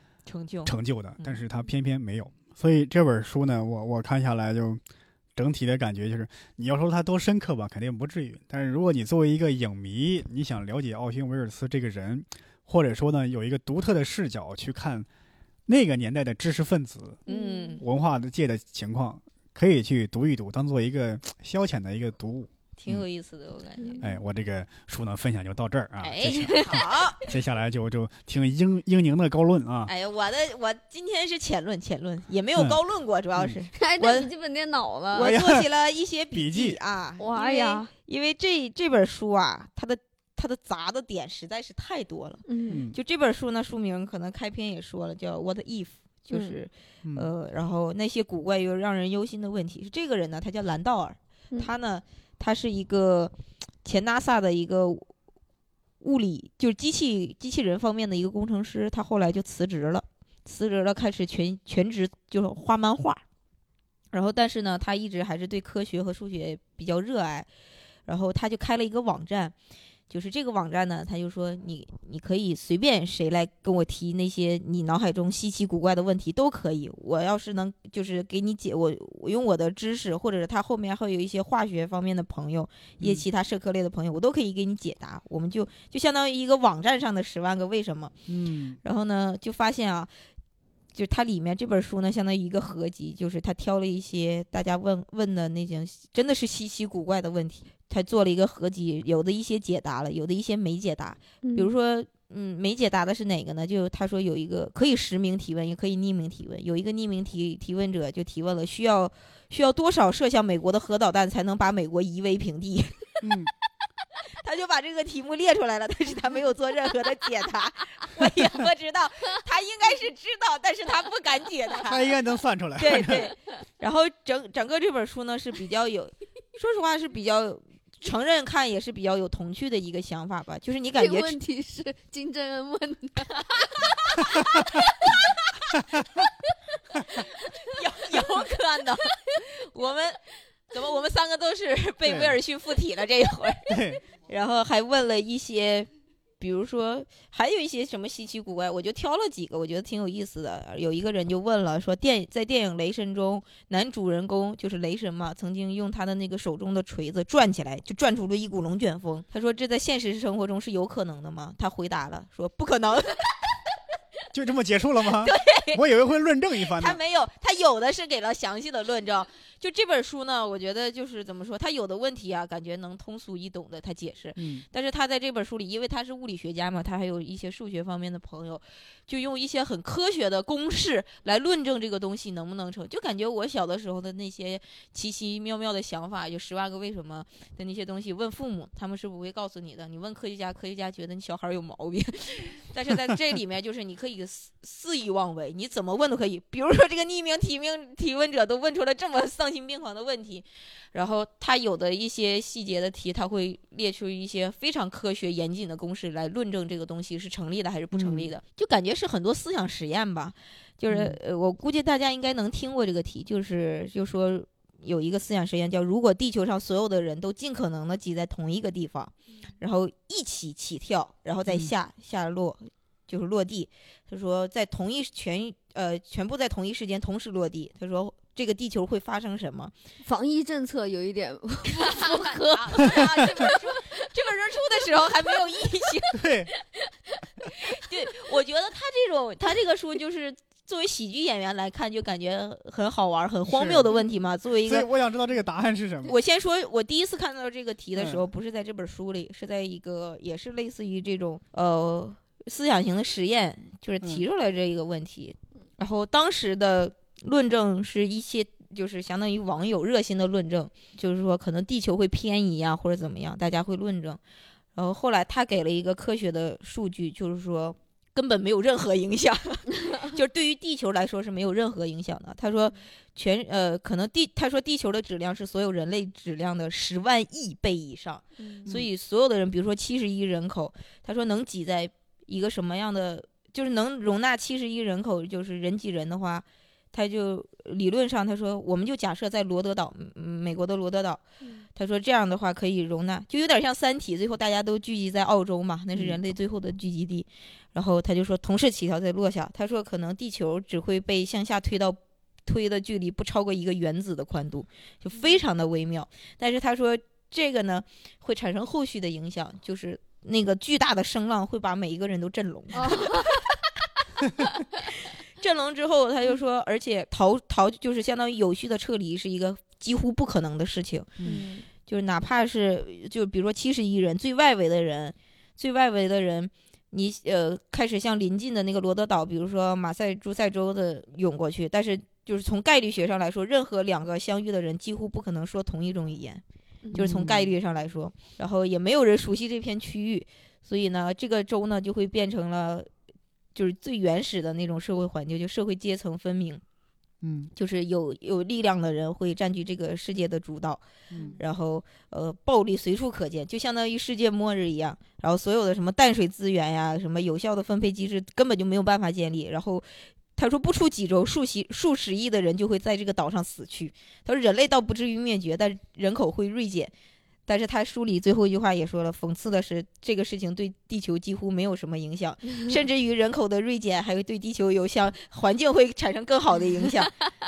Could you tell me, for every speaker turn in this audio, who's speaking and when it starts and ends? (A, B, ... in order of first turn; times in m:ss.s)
0:00.2-0:01.4 A
0:00.6-0:04.8 B
0:05.4-0:15.1 B
0:15.7-0:17.2 B
0:17.3-0:17.8 C
0:17.3-0:17.8 A
0:17.8-0:23.0 B
0:22.8-0:24.1 A
0:23.8-0:24.1 C
0:24.0-0:29.9 B
0:26.0-0:27.2 A
0:26.3-0:26.9 C
0:29.9-0:34.3 A
0:33.7-0:35.3 C
0:35.1-0:53.3 A
0:35.2-0:35.7 B
0:36.3-0:36.8 B
0:37.2-0:37.9 C
0:42.5-0:42.8 C
0:42.7-0:43.0 B
0:46.3-0:46.6 C
0:47.0-0:47.3 B
0:53.8-0:55.1 A
0:56.0-1:03.2 A
1:04.1-1:07.5 A
1:08.1-1:09.5 A
1:10.1-1:28.2 A
1:28.3-1:28.8 B
1:28.8-1:30.1 A
1:30.9-1:53.3 A
1:41.4-1:41.7 C
1:53.2-1:53.5 B
1:54.4-2:02.1 A
2:01.8-2:03.3 B
2:02.8-2:11.4 A
2:10.9-2:15.1 C
2:15.0-2:15.4 A
2:15.8-2:16.1 B
2:17.4-2:17.7 C
2:17.4-2:20.2 A
2:20.7-2:25.9 A
2:22.0-2:22.4 B
2:23.7-2:24.0 B
2:26.4-2:43.6 A
2:44.3-2:47.0 B
2:45.1-2:45.8 A
2:46.7-3:49.7 A
2:54.4-2:54.6 B
3:27.9-3:28.3 B
3:30.9-3:31.2 B
3:50.0-3:54.1 C
3:51.7-3:56.2 A
3:56.1-3:56.5 B
3:57.4-3:57.8 C
3:57.5-4:04.9 A
4:03.5-4:03.9 B
4:04.6-4:06.2 B
4:06.0-4:24.2 A
4:08.0-4:08.2 B
4:24.7-4:51.2 A
4:38.4-4:38.7 C
4:51.8-5:13.4 A
4:55.9-4:56.2 B
5:12.7-5:13.4 C
5:14.8-5:21.1 A
5:21.2-5:21.6 C
5:21.8-5:36.4 A
5:36.9-5:42.9 A
5:36.9-5:37.5 B
5:43.5-5:46.6 A
5:47.2-5:47.5 B
5:47.6-5:50.8 A
5:51.4-5:59.8 A
6:00.4-6:06.9 A
6:07.5-6:17.1 A